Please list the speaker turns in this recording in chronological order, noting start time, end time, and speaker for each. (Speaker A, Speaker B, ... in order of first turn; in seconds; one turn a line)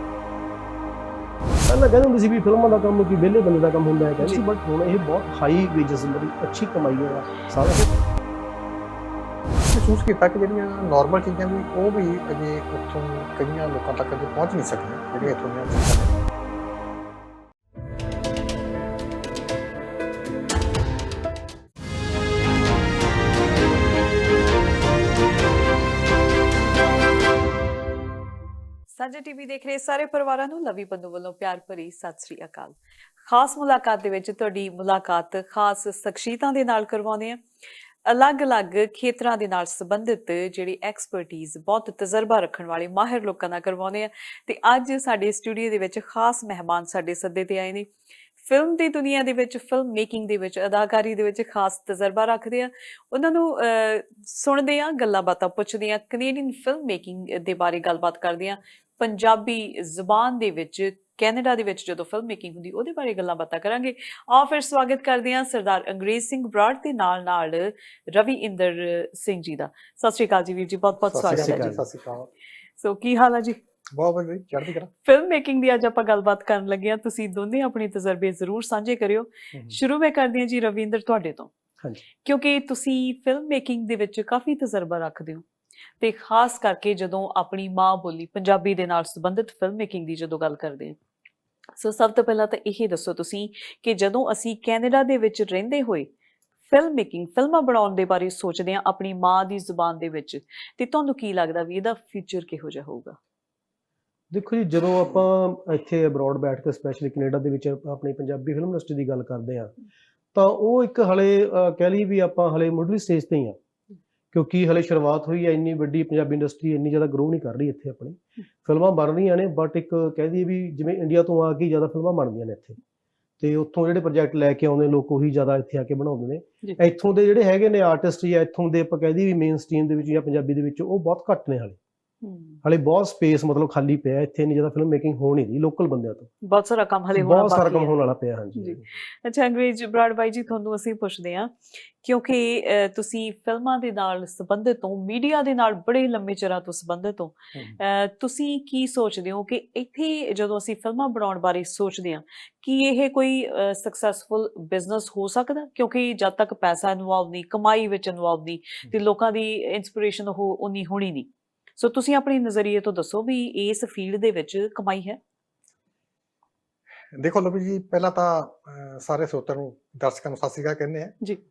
Speaker A: 1.6-7.9
Speaker B: 4.2-4.4
Speaker C: 9.6-16.1
Speaker B: 29.0-37.4
Speaker B: 38.0-71.7
Speaker C: 71.1-72.3
Speaker A: 71.2-71.8
Speaker B: 72.8-73.6
Speaker C: 73.9-74.9
Speaker B: 75.0-81.5
Speaker C: 79.5-79.8
Speaker B: 82.2-85.4
Speaker B: 86.0-91.0
Speaker B: 91.8-96.1
Speaker B: 96.7-103.2
Speaker A: 104.3-109.7
Speaker A: 110.3-113.5
Speaker A: 114.3-122.8
Speaker A: 123.4-131.8
Speaker B: 132.2-132.6
Speaker A: 132.6-136.3
Speaker B: 136.4-137.9
Speaker A: 137.1-138.8
Speaker B: 138.6-165.2
Speaker C: 167.1-171.1